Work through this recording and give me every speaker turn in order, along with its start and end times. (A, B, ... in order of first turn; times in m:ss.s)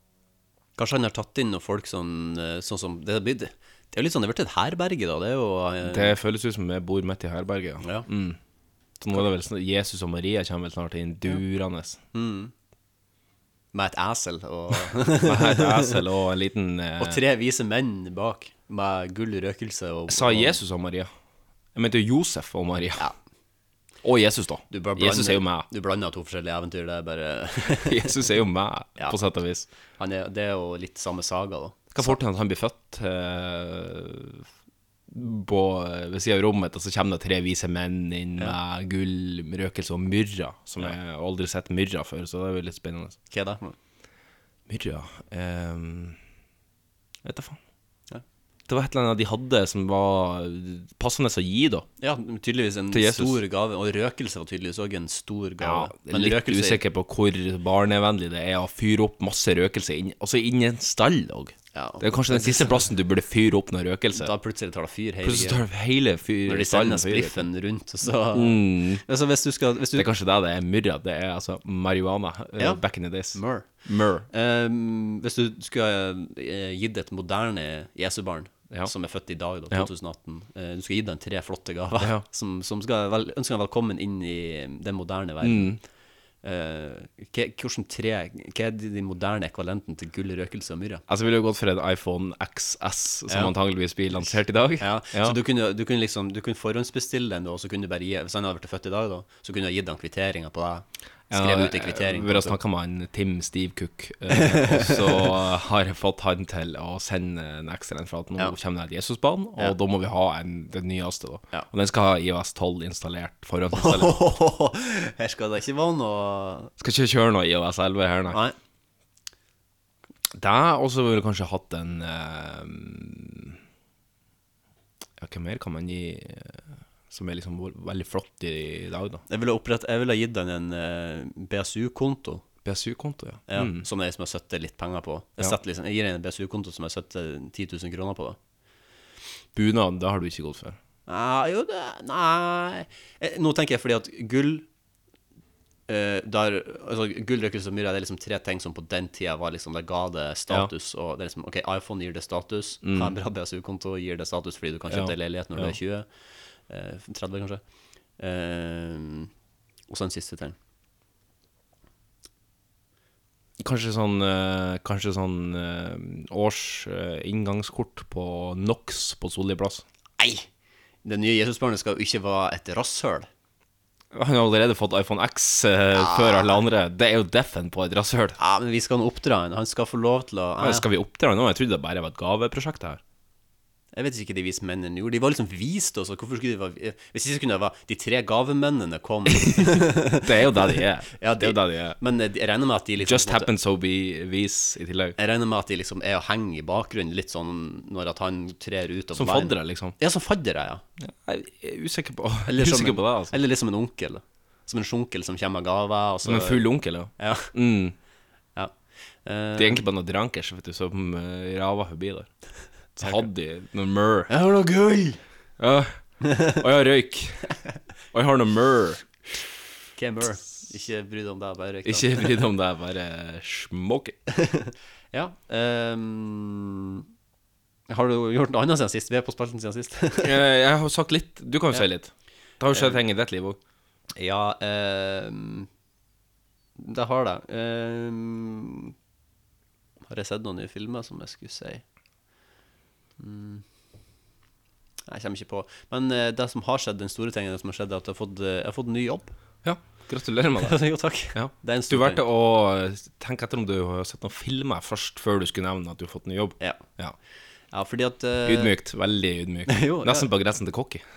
0:00.8-0:06.2 A
0:05.8-0:08.4 B
0:07.8-0:08.1 A
0:09.0-0:12.0 B
0:12.1-0:12.5 A
0:13.7-0:16.0 A
0:15.0-0:17.2 B
0:17.0-0:20.6 A
0:20.1-0:21.1 B
0:21.7-0:23.1 B
0:24.0-0:25.7 B
0:24.7-0:28.1 A
0:27.7-0:29.7 B
0:30.0-0:32.2 A
0:31.9-0:34.4 B
0:35.1-0:43.2 B
0:43.3-0:43.8 A
0:44.7-0:46.2 B
0:47.2-0:47.6 B
0:48.7-0:51.9 B
0:52.0-0:56.8 A
0:52.9-0:53.4 B
0:55.6-1:04.3 B
1:01.7-1:02.9 A
1:04.1-1:05.6 A
1:05.2-1:07.4 B
1:06.4-1:10.1 A
1:08.3-1:09.0 B
1:09.9-1:14.3 B
1:12.6-1:13.7 A
1:14.3-1:25.8 A
1:22.0-1:22.2 B
1:25.4-1:25.8 B
1:26.4-1:31.0 A
1:31.1-1:35.4 B
1:33.3-1:33.5 A
1:34.1-1:42.6 A
1:41.3-1:54.2 B
1:44.3-1:45.3 A
1:53.7-1:56.7 A
1:56.8-1:58.4 B
1:58.3-1:58.6 A
2:00.3-2:03.6 B
2:05.2-2:09.2 B
2:09.3-2:12.4 A
2:12.6-2:13.8 B
2:13.5-2:18.4 A
2:19.5-2:20.8 B
2:21.1-2:24.6 A
2:25.9-2:36.1 A
2:32.8-2:33.1 B
2:34.9-2:35.8 B
2:36.7-2:37.6 A
2:38.2-2:39.3 A
2:39.9-2:40.6 A
2:43.6-2:49.8 B
2:50.2-2:50.5 A
2:51.0-2:53.3 A
2:54.1-2:58.4 B
2:56.0-2:56.6 A
2:58.4-3:00.8 A
3:00.6-3:03.0 B
3:03.9-3:13.5 A
3:10.2-3:12.0 B
3:13.0-3:15.2 B
3:15.2-3:20.8 A
3:19.1-3:20.0 B
3:21.0-3:23.4 B
3:22.5-3:26.6 A
3:26.2-3:27.9 B
3:27.2-3:27.5 A
3:29.2-3:29.8 A
3:29.6-3:32.3 B
3:33.0-3:34.3 B
3:33.0-3:33.2 A
3:34.3-3:35.2 A
3:35.6-3:37.5 B
3:36.2-3:36.6 A
3:38.1-3:39.0 B
3:40.0-3:42.3 A
3:41.8-3:44.2 B
3:44.4-3:47.0 A
3:47.9-3:50.3 A
3:50.2-3:53.6 B
3:52.7-3:53.0 A
3:54.2-3:55.7 A
3:56.8-3:58.9 A
4:00.1-4:01.8 A
4:03.2-4:03.6 A
4:05.1-4:09.3 A
4:09.6-4:10.8 B
4:10.6-4:12.2 A
4:11.3-4:17.1 B
4:17.7-4:18.7 A
4:18.4-4:21.0 B
4:19.7-4:20.3 A